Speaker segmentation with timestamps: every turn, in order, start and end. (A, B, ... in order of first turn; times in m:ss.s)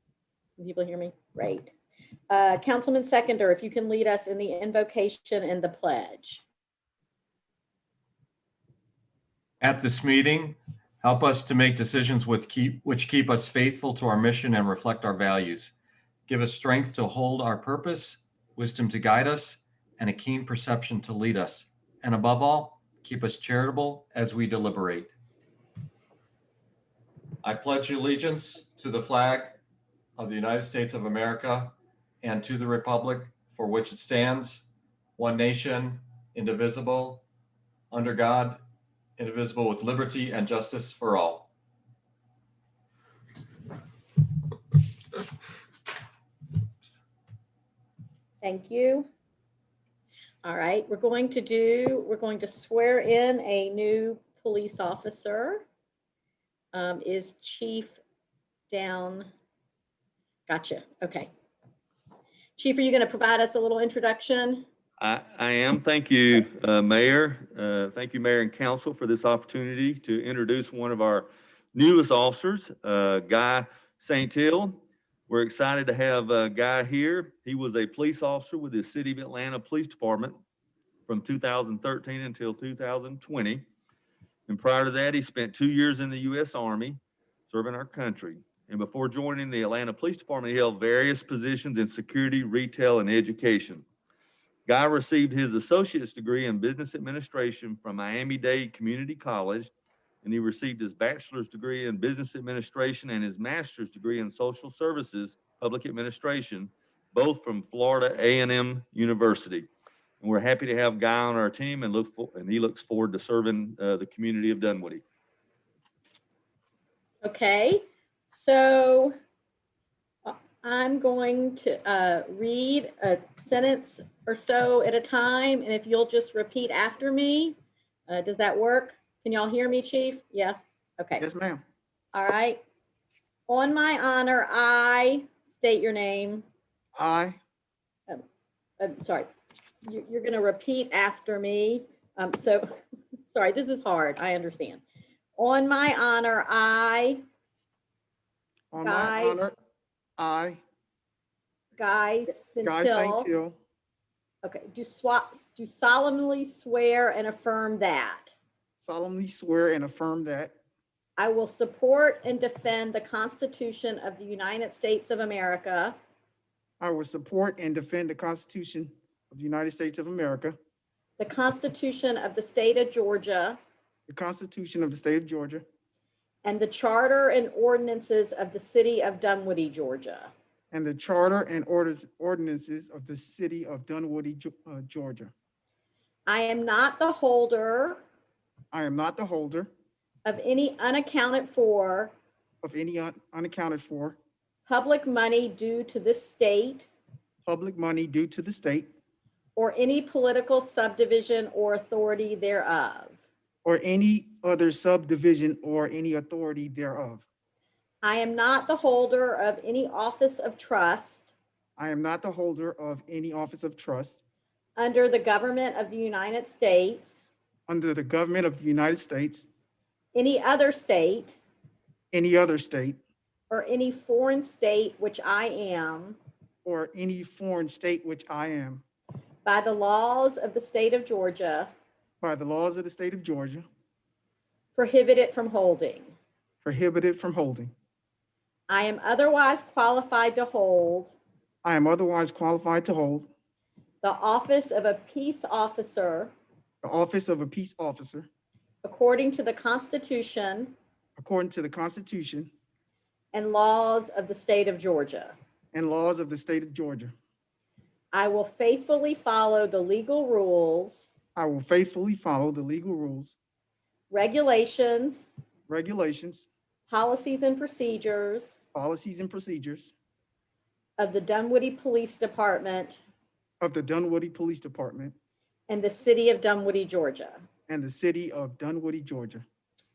0:00.6-0:01.7 A
0:02.3-0:06.4 A
0:09.6-0:15.7 B
0:16.3-0:25.1 B
0:27.4-0:29.6 B
0:30.2-0:34.6 B
0:35.2-0:37.2 B
0:37.9-0:38.6 B
0:39.2-0:41.5 B
0:48.4-0:49.1 A
0:50.4-0:55.6 A
0:56.7-0:58.0 A
0:58.7-0:59.3 A
1:00.5-1:01.3 A
1:02.6-1:04.6 A
1:05.0-1:20.4 C
1:21.0-1:23.6 C
1:24.5-1:33.8 C
1:34.7-1:39.7 C
1:40.2-1:49.7 C
1:50.2-1:55.0 C
1:57.2-1:59.1 A
2:00.2-2:07.6 A
2:08.1-2:11.2 A
2:11.2-2:11.6 D
2:12.1-2:12.6 A
2:13.5-2:16.4 A
2:17.0-2:17.4 D
2:18.8-2:19.3 A
2:19.8-2:22.6 A
2:23.3-2:24.8 A
2:25.4-2:27.2 A
2:28.7-2:29.5 D
2:28.8-2:29.4 A
2:30.2-2:30.6 D
2:31.8-2:33.3 A
2:32.6-2:33.6 D
2:34.4-2:38.3 A
2:38.8-2:40.5 D
2:41.2-2:46.0 A
2:46.8-2:50.6 D
2:51.2-2:53.6 A
2:54.1-2:55.6 D
2:56.4-3:00.3 A
3:00.7-3:05.3 D
3:06.3-3:08.0 A
3:08.7-3:09.7 D
3:10.2-3:12.1 A
3:12.6-3:14.2 D
3:14.7-3:16.9 A
3:17.4-3:18.9 D
3:19.6-3:23.2 A
3:23.6-3:27.2 D
3:28.0-3:31.3 A
3:31.8-3:34.2 D
3:34.8-3:37.2 A
3:37.7-3:39.5 D
3:40.1-3:41.4 A
3:42.1-3:43.0 D
3:43.5-3:46.2 A
3:46.6-3:48.8 D
3:49.4-3:51.7 A
3:52.2-3:53.6 D
3:54.8-3:56.1 A
3:56.6-3:57.7 D
3:58.7-4:01.1 A
4:01.6-4:03.3 D
4:04.0-4:06.3 A
4:06.8-4:08.3 D
4:08.8-4:10.7 A
4:11.2-4:12.5 D
4:13.3-4:15.4 A
4:15.7-4:17.1 D
4:18.1-4:21.1 A
4:21.4-4:23.4 D
4:24.1-4:25.2 A
4:25.7-4:26.5 D
4:26.9-4:28.5 A
4:28.7-4:29.9 D
4:31.0-4:33.0 A
4:33.6-4:35.1 D
4:35.7-4:37.4 A
4:37.7-4:39.4 D